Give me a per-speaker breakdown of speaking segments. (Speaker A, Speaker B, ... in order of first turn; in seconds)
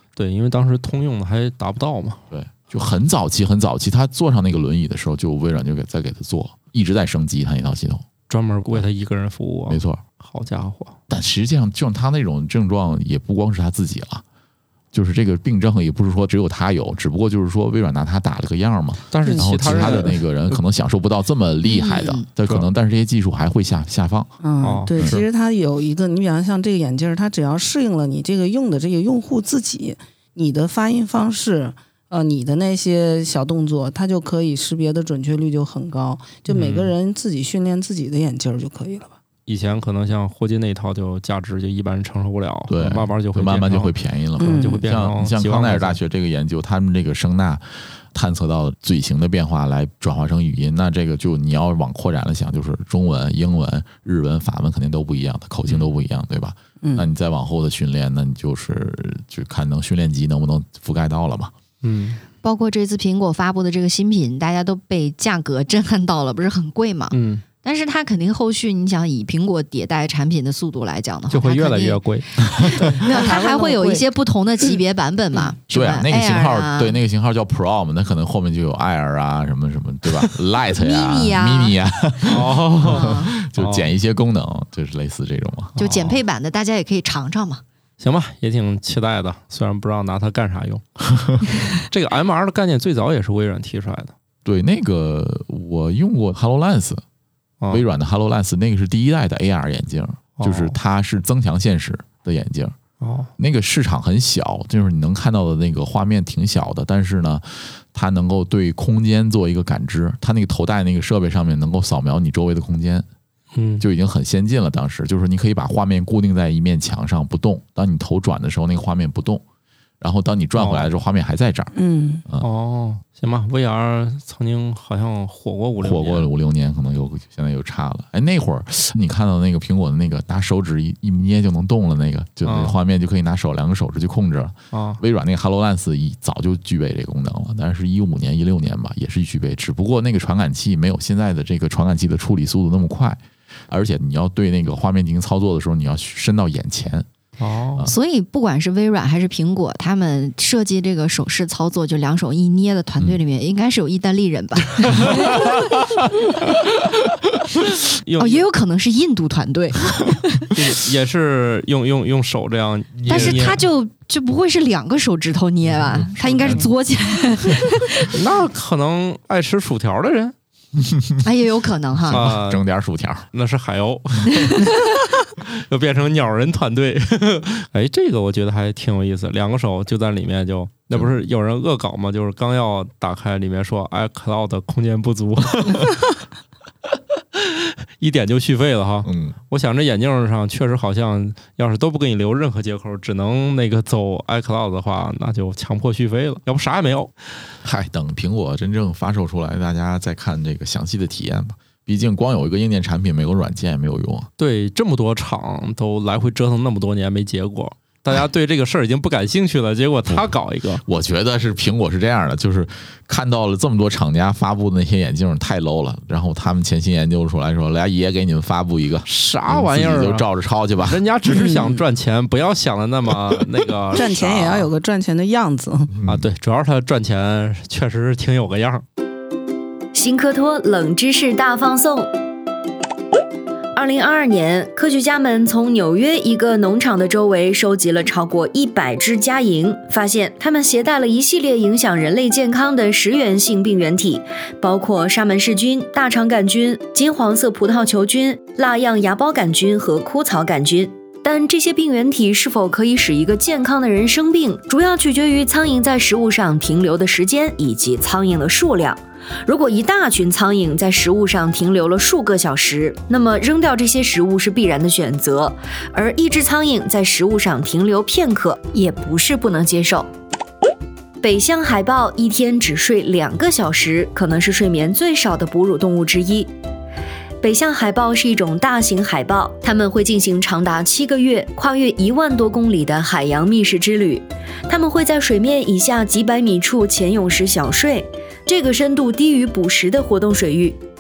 Speaker A: 0.1-2.2, 8.3-11.0, 19.1-20.6, 24.6-25.2, 36.5-36.9, 39.5-46.0, 61.8-62.2, 67.1-67.4, 71.3-72.3, 82.2-83.9, 85.8-86.2, 88.0-90.8, 91.8-94.1, 100.4-100.8, 103.0-103.3, 113.5-113.8, 120.5-120.9, 122.4-126.3, 132.4-132.8, 134.7-135.0, 147.4-147.9, 157.8-158.4, 160.5-163.6, 165.9-166.7, 168.1-170.3, 172.1-172.6, 173.3-174.7, 175.3-186.1, 187.3-197.1, 204.4-210.8, 219.1-220.2, 220.8-224.7, 226.1-228.8
Speaker B: 2.3-8.1, 9.7-10.0, 11.1-14.2, 14.9-24.3, 42.7-61.5, 75.7-85.8, 94.4-97.0, 97.7-102.8, 103.4-113.0, 113.8-119.4, 120.0-121.7, 125.8-147.1, 162.9-163.6, 166.4-166.7, 170.8-171.2, 172.0-173.3, 189.0-189.3, 197.6-204.3, 210.8-221.0, 225.9-226.3
Speaker C: 19.2-20.0, 24.4-39.1, 44.4-44.8, 56.8-57.1, 72.7-74.1, 121.7-122.2, 221.3-221.8, 223.9-225.9
Speaker D: 21.6-22.2, 62.4-72.0, 72.6-76.9, 80.8-81.8, 82.8-83.3, 85.8-87.6, 147.8-155.7, 158.2-160.5, 163.1-168.1, 171.2-172.2, 174.5-174.7
Speaker E: 229.9-232.1, 233.7-270.1, 271.2-276.5, 277.4-290.8